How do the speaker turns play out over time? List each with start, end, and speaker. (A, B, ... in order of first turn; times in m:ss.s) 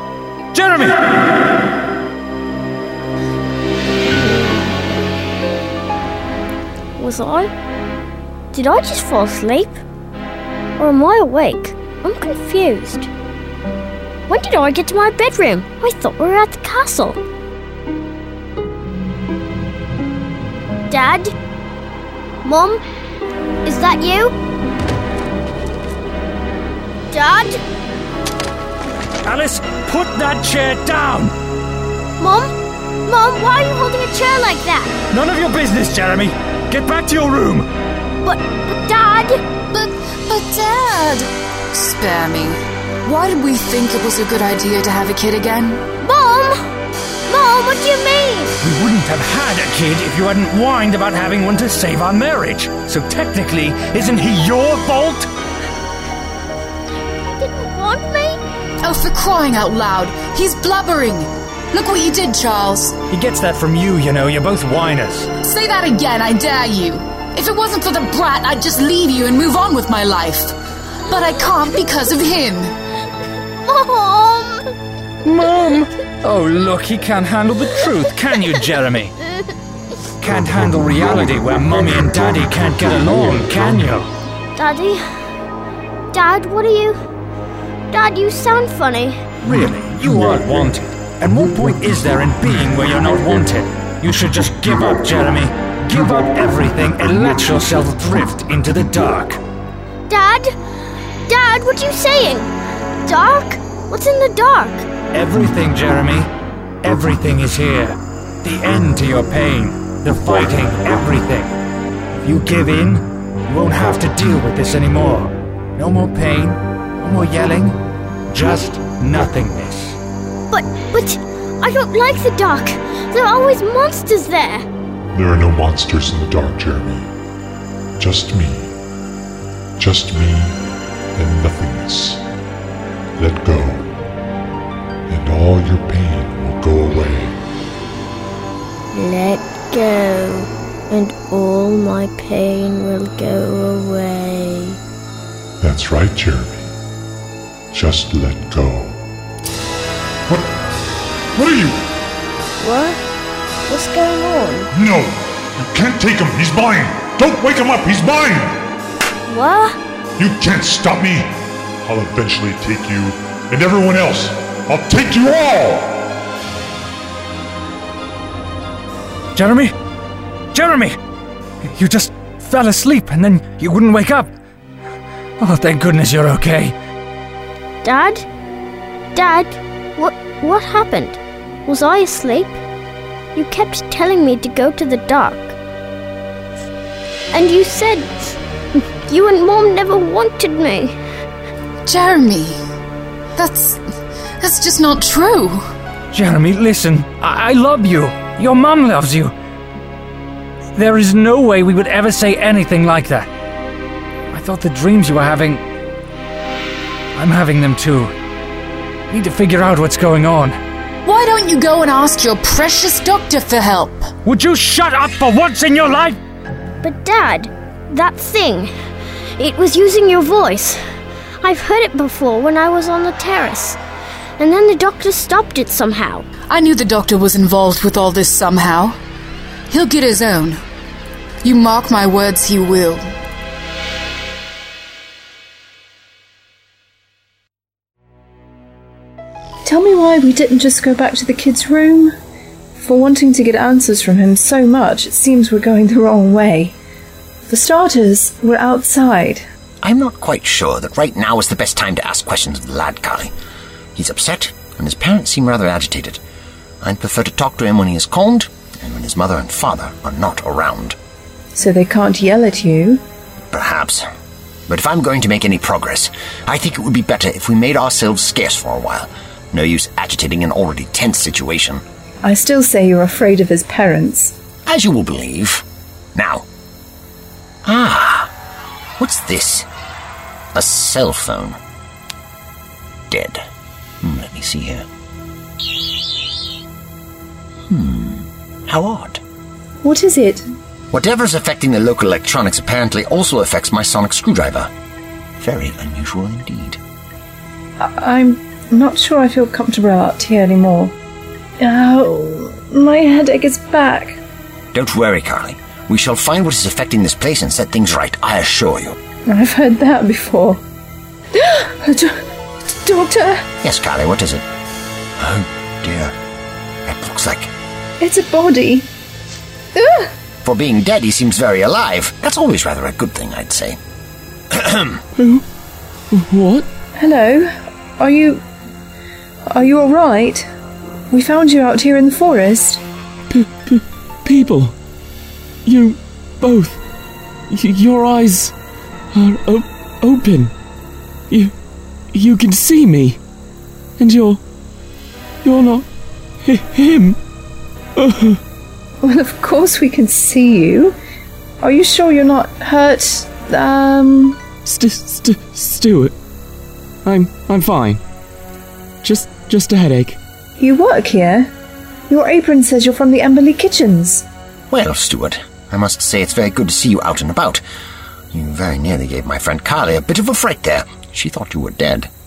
0:00.5-0:01.1 A
0:04.1-0:04.8 B
0:07.0-0:07.5 B
0:08.5-0:09.8 B
0:10.8-0:13.1 B
0:14.3-0:17.2 B
0:20.9-0:21.3 B
0:22.4-0:22.8 B
0:23.6-0:24.4 B
0:27.1-0:27.6 B
0:29.2-0:31.3 A
0:32.2-0:32.5 B
0:33.0-0:35.0 B
0:35.1-0:37.7 A
0:38.2-0:39.4 B
0:39.7-0:45.8 C
0:46.0-0:46.6 B
0:47.3-0:48.6 B
0:48.6-0:55.3 A
0:57.3-0:58.4 B
0:58.8-1:03.0 C
1:03.1-1:05.3 A
1:05.4-1:12.7 C
1:13.6-1:14.7 B
1:15.2-1:19.1 A
1:20.2-1:24.1 A
1:24.6-1:25.0 B
1:26.1-1:27.0 B
1:27.9-1:29.2 B
1:29.4-1:39.4 A
1:40.1-1:40.5 B
1:41.3-1:42.5 B
1:43.0-1:44.9 B
1:45.1-1:46.3 A
1:46.8-1:51.5 A
1:52.2-2:00.0 A
2:00.5-2:04.6 B
2:05.1-2:07.1 D
2:08.0-2:08.7 D
2:09.8-2:10.6 D
2:11.2-2:12.2 D
2:13.2-2:13.9 D
2:15.1-2:17.4 D
2:18.9-2:24.8 B
2:25.6-2:26.7 D
2:27.7-2:29.0 D
2:30.3-2:30.5 D
2:31.3-2:31.8 D
2:32.6-2:33.0 B
2:33.7-2:34.7 B
2:34.7-2:38.6 D
2:39.3-2:39.8 B
2:40.2-2:46.1 D
2:49.3-2:49.7 A
2:50.5-2:51.0 A
2:51.6-2:54.3 A
2:55.4-2:56.7 A
2:57.8-2:58.2 B
2:59.1-3:02.6 B
3:03.3-3:05.6 B
3:07.3-3:08.3 B
3:09.1-3:10.9 B
3:11.8-3:12.6 C
3:13.4-3:13.8 C
3:14.4-3:15.6 C
3:16.1-3:19.3 A
3:20.8-3:23.3 A
3:24.3-3:25.6 A
3:27.1-3:28.1 A
3:29.1-3:30.6 A
3:31.0-3:34.1 C
3:34.2-3:36.2 A
3:36.8-3:38.7 B
3:39.4-3:40.8 B
3:41.4-3:43.8 B
3:44.4-3:46.2 B
3:46.5-3:49.0 C
3:49.7-3:50.6 C
3:51.4-3:53.1 C
3:59.6-4:02.1 E
4:02.8-4:06.8 E
4:07.5-4:09.4 E
4:09.8-4:13.3 F
4:13.9-4:16.2 F
4:16.8-4:21.0 F
4:21.5-4:23.0 E
4:23.5-4:24.0 F
4:24.7-4:31.8 F
4:32.2-4:34.3 E
4:34.6-4:36.4 F
4:37.6-4:38.3 F
4:39.0-4:39.7 F
4:40.5-4:41.6 F
4:43.1-4:43.4 F
4:44.0-4:44.8 F
4:47.7-4:49.2 F
4:49.8-4:50.4 E
4:50.9-4:54.7 F
4:55.4-4:56.8 F
4:57.8-5:00.9 E
5:01.6-5:04.2 E
5:04.7-5:09.0 F
5:09.3-5:10.6 E
5:11.3-5:13.5 E
5:13.6-5:14.4 F
5:15.2-5:16.1 F
5:16.8-5:17.5 F
5:18.0-5:18.9 E
5:19.7-5:20.1 E
5:20.4-5:23.8 F
5:24.5-5:25.0 F
5:25.2-5:25.4 G
5:26.1-5:26.7 G
5:27.0-5:28.4 E
5:29.5-5:30.5 E
5:31.1-5:32.8 E
5:33.3-5:34.7 G
5:35.6-5:36.8 G
5:37.5-5:38.5 G
5:39.1-5:40.5 G
5:42.1-5:43.2 G
5:44.0-5:44.4 G
5:45.4-5:45.9 G
5:46.4-5:47.2 G
5:48.0-5:48.4 G
5:49.0-5:51.0 E
5:51.6-5:54.4 E
5:54.6-5:56.2 G
5:57.0-5:58.0 G
5:59.0-6:00.2 G
6:00.6-6:01.5 E
6:02.1-6:04.2 E
6:04.7-6:07.6 F
6:08.3-6:12.1 F